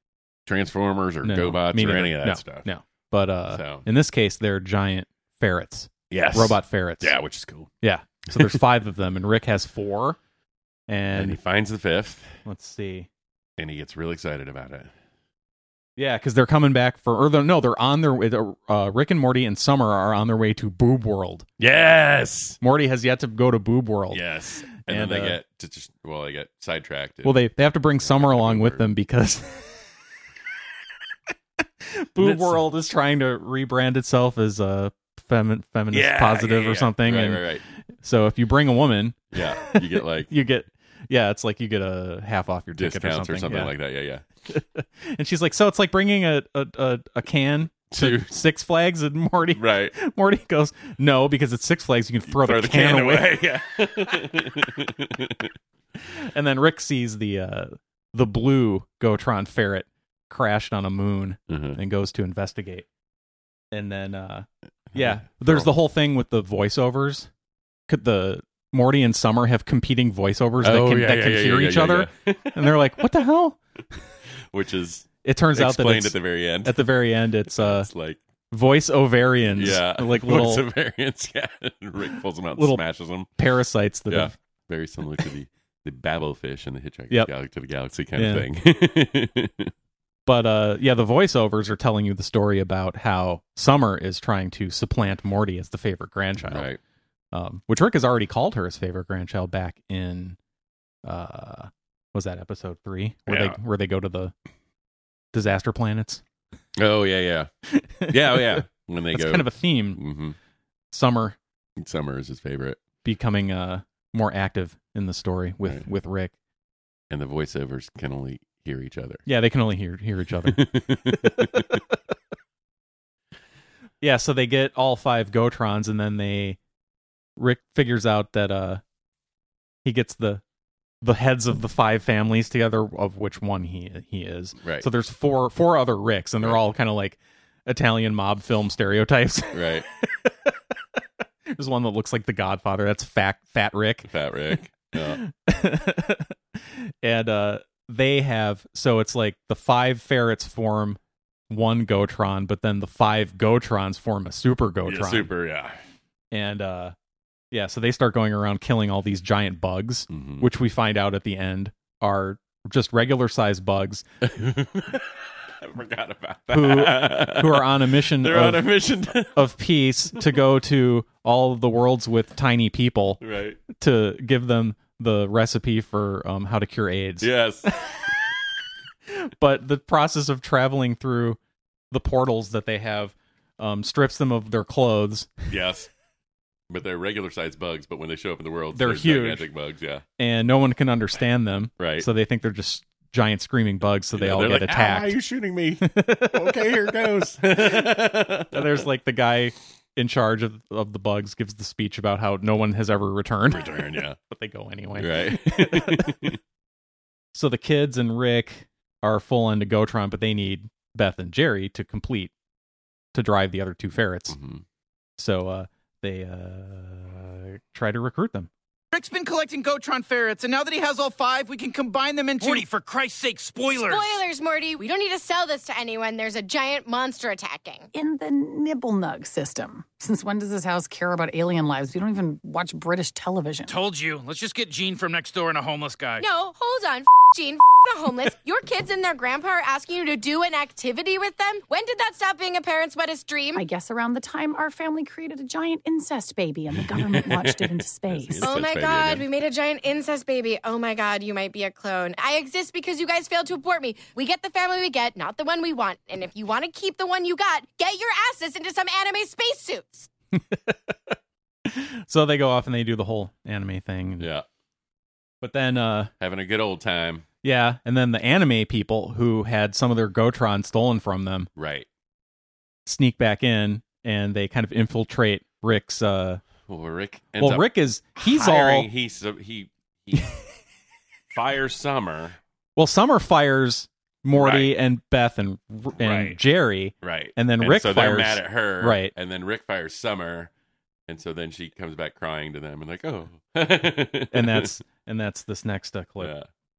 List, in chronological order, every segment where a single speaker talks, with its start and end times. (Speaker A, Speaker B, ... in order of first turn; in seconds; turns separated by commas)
Speaker A: 0.5-2.7, Speaker B: 1.2-7.2, Speaker A: 3.5-3.9, Speaker A: 6.1-7.7, Speaker B: 7.8-10.2, Speaker B: 10.9-11.4, Speaker A: 11.1-12.4, Speaker B: 12.4-13.1, Speaker A: 13.6-14.9, Speaker B: 16.0-21.5, Speaker A: 21.6-22.6, Speaker B: 22.6-24.2, Speaker A: 24.1-28.9, Speaker B: 24.8-25.4, Speaker B: 27.2-29.7, Speaker B: 31.8-37.5, Speaker A: 32.2-32.6, Speaker A: 35.9-37.6, Speaker B: 38.0-43.7, Speaker A: 39.3-40.3, Speaker A: 42.8-44.2, Speaker B: 44.5-53.4, Speaker A: 47.9-48.4, Speaker A: 49.5-49.9, Speaker A: 52.3-55.5, Speaker B: 56.1-62.9, Speaker A: 61.5-61.8, Speaker B: 63.7-67.3, Speaker A: 64.9-65.7, Speaker B: 67.9-73.6, Speaker A: 70.6-73.0, Speaker A: 74.5-76.9, Speaker B: 75.2-77.9, Speaker A: 77.5-78.2, Speaker B: 78.5-80.7, Speaker A: 79.5-83.3, Speaker B: 82.6-82.8, Speaker B: 83.4-84.3, Speaker A: 84.1-89.7, Speaker B: 88.2-88.5, Speaker B: 90.3-96.7, Speaker A: 96.4-96.8, Speaker B: 97.3-100.4, Speaker B: 101.0-104.3, Speaker A: 103.3-103.6, Speaker B: 105.3-106.2, Speaker A: 106.8-107.5, Speaker B: 107.8-110.0, Speaker A: 108.1-110.4, Speaker B: 110.9-111.4, Speaker A: 111.8-112.8, Speaker B: 113.0-116.3, Speaker A: 117.1-119.2, Speaker B: 119.3-121.8, Speaker A: 120.5-121.8, Speaker B: 124.0-126.6, Speaker B: 127.4-128.8, Speaker B: 129.8-130.4, Speaker B: 131.0-140.5, Speaker A: 134.6-134.9, Speaker A: 139.5-139.9, Speaker B: 141.5-144.1, Speaker A: 144.1-145.2, Speaker B: 145.2-151.0, Speaker B: 151.5-155.3, Speaker A: 154.8-155.8, Speaker B: 156.3-156.9, Speaker B: 157.5-164.1, Speaker A: 160.1-160.5, Speaker A: 164.2-169.5, Speaker B: 166.5-177.3, Speaker A: 173.2-173.6, Speaker A: 177.2-177.7, Speaker B: 179.1-181.4, Speaker B: 181.9-185.3, Speaker A: 185.5-185.9, Speaker A: 186.7-190.0, Speaker B: 188.7-189.5, Speaker B: 190.2-195.2, Speaker A: 191.8-192.1, Speaker A: 194.1-198.9, Speaker B: 195.8-197.9, Speaker B: 198.5-206.3, Speaker A: 203.5-204.2, Speaker A: 205.0-206.4, Speaker B: 207.3-212.3, Speaker B: 213.1-214.4, Speaker A: 214.3-214.6, Speaker B: 215.2-218.5, Speaker C: 218.9-222.6, Speaker D: 222.4-224.2, Speaker E: 223.7-227.9, Speaker F: 227.9-233.7, Speaker D: 233.7-236.2, Speaker E: 236.2-243.7, Speaker F: 243.6-248.5, Speaker A: 246.9-249.3, Speaker E: 248.4-260.1, Speaker B: 260.4-261.1, Speaker B: 261.7-264.3, Speaker A: 264.2-264.5, Speaker B: 265.4-266.1, Speaker A: 266.2-267.3, Speaker B: 267.4-271.5, Speaker A: 271.6-271.9, Speaker B: 272.9-276.4, Speaker A: 276.7-280.3, Speaker B: 277.4-278.9, Speaker A: 281.3-282.4, Speaker B: 282.8-289.1, Speaker A: 284.4-284.7, Speaker A: 286.0-286.4, Speaker A: 287.0-290.5, Speaker A: 291.1-294.8, Speaker B: 294.3-296.3, Speaker A: 296.2-296.5